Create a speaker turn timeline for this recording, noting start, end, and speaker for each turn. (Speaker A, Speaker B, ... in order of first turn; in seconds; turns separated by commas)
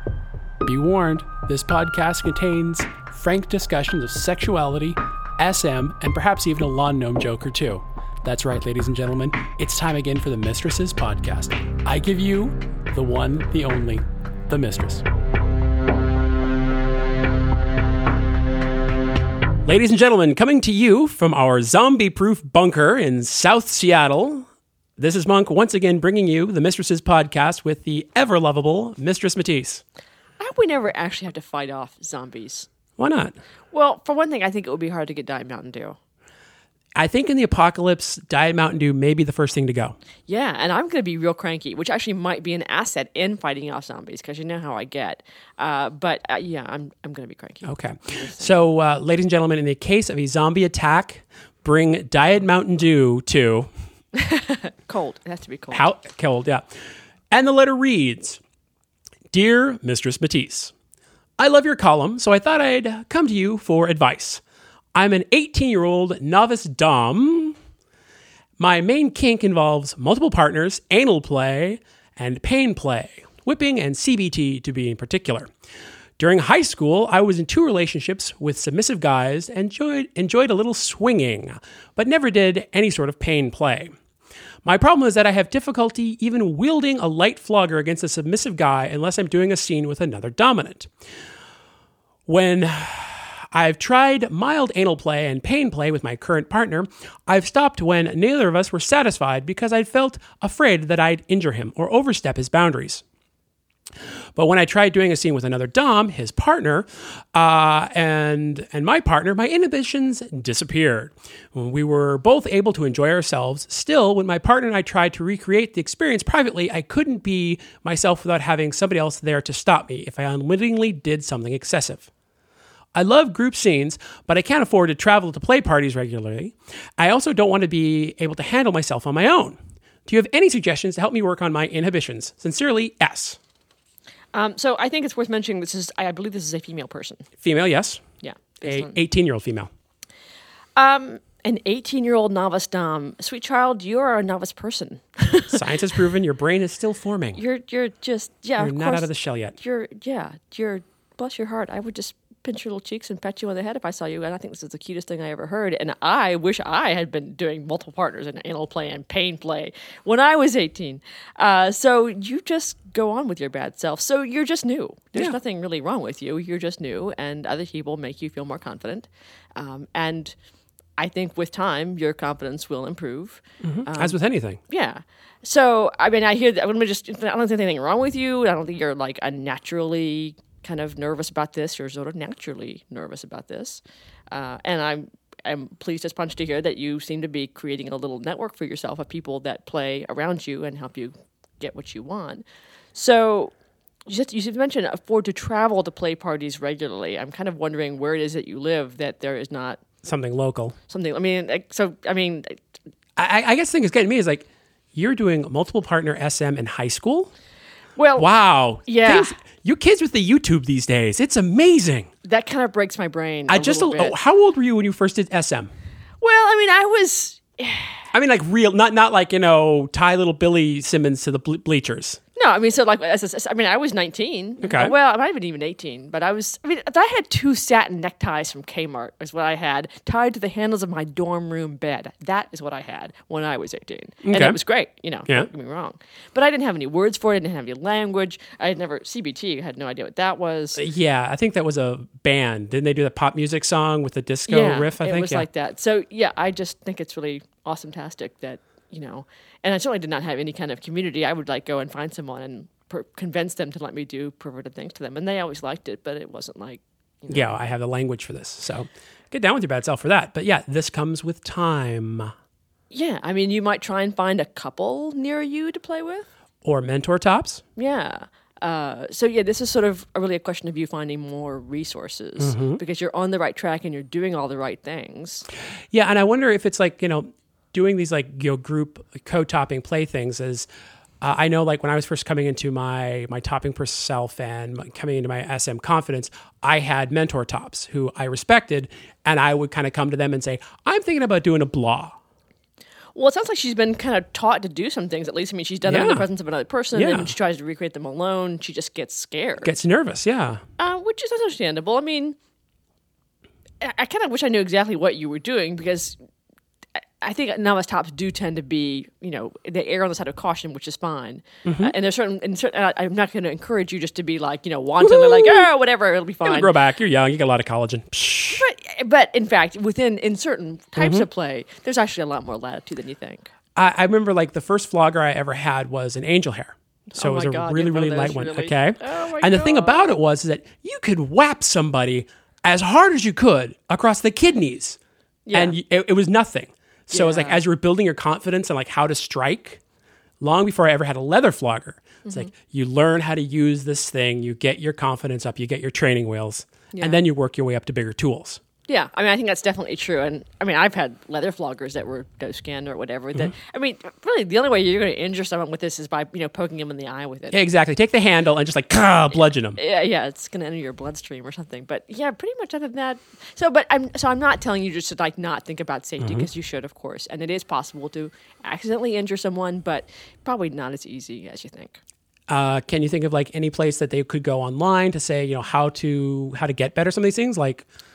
Speaker A: 0.6-15.1, Speaker A: 19.6-24.5, Speaker A: 25.0-29.8, Speaker B: 30.4-32.7, Speaker A: 33.0-33.4, Speaker B: 33.7-36.0, Speaker A: 37.0-40.0, Speaker B: 40.3-48.5, Speaker A: 47.6-53.7, Speaker B: 54.1-55.9, Speaker A: 55.7-56.7, Speaker A: 57.3-58.4, Speaker A: 59.3-60.7, Speaker A: 61.4-64.4, Speaker A: 65.0-67.6, Speaker A: 68.6-75.5, Speaker A: 76.2-83.9, Speaker A: 84.7-90.9, Speaker A: 92.3-103.0, Speaker A: 104.4-122.1, Speaker A: 123.0-133.4, Speaker B: 134.3-137.3, Speaker A: 137.4-138.0, Speaker B: 138.2-139.0, Speaker A: 138.6-139.7, Speaker B: 140.8-145.8, Speaker A: 145.5-147.4, Speaker B: 147.3-170.4, Speaker A: 148.6-149.6, Speaker B: 171.0-193.5, Speaker A: 173.6-174.6, Speaker B: 194.1-199.8, Speaker A: 200.0-200.8, Speaker B: 200.9-202.6, Speaker A: 203.2-207.3, Speaker B: 208.0-208.3, Speaker A: 208.2-212.1, Speaker B: 208.9-209.3, Speaker B: 212.2-214.2, Speaker A: 213.5-215.7, Speaker B: 216.2-218.0, Speaker A: 218.1-222.2, Speaker B: 222.4-240.8, Speaker A: 224.6-224.9, Speaker A: 234.2-234.6, Speaker A: 240.8-245.5, Speaker B: 244.5-257.5, Speaker A: 257.3-262.3, Speaker B: 262.9-266.3, Speaker A: 266.6-267.6, Speaker B: 267.8-275.5, Speaker A: 272.4-272.8, Speaker A: 275.9-280.7, Speaker A: 281.2-292.1, Speaker B: 293.1-299.8, Speaker A: 295.8-296.2, Speaker A: 296.9-297.3, Speaker A: 299.6-300.6, Speaker B: 300.8-302.4, Speaker B: 303.8-306.2, Speaker B: 307.2-316.7, Speaker A: 311.6-311.9, Speaker A: 315.0-315.7, Speaker A: 316.4-318.6, Speaker B: 318.5-323.5, Speaker A: 321.0-321.3, Speaker A: 323.8-335.0, Speaker B: 327.1-330.2, Speaker B: 335.5-335.8, Speaker A: 335.5-339.8, Speaker B: 337.1-337.6, Speaker A: 340.4-348.6, Speaker B: 346.9-347.2, Speaker B: 348.9-357.6, Speaker A: 357.5-359.8, Speaker B: 359.8-372.0, Speaker A: 366.2-366.5, Speaker A: 372.5-377.9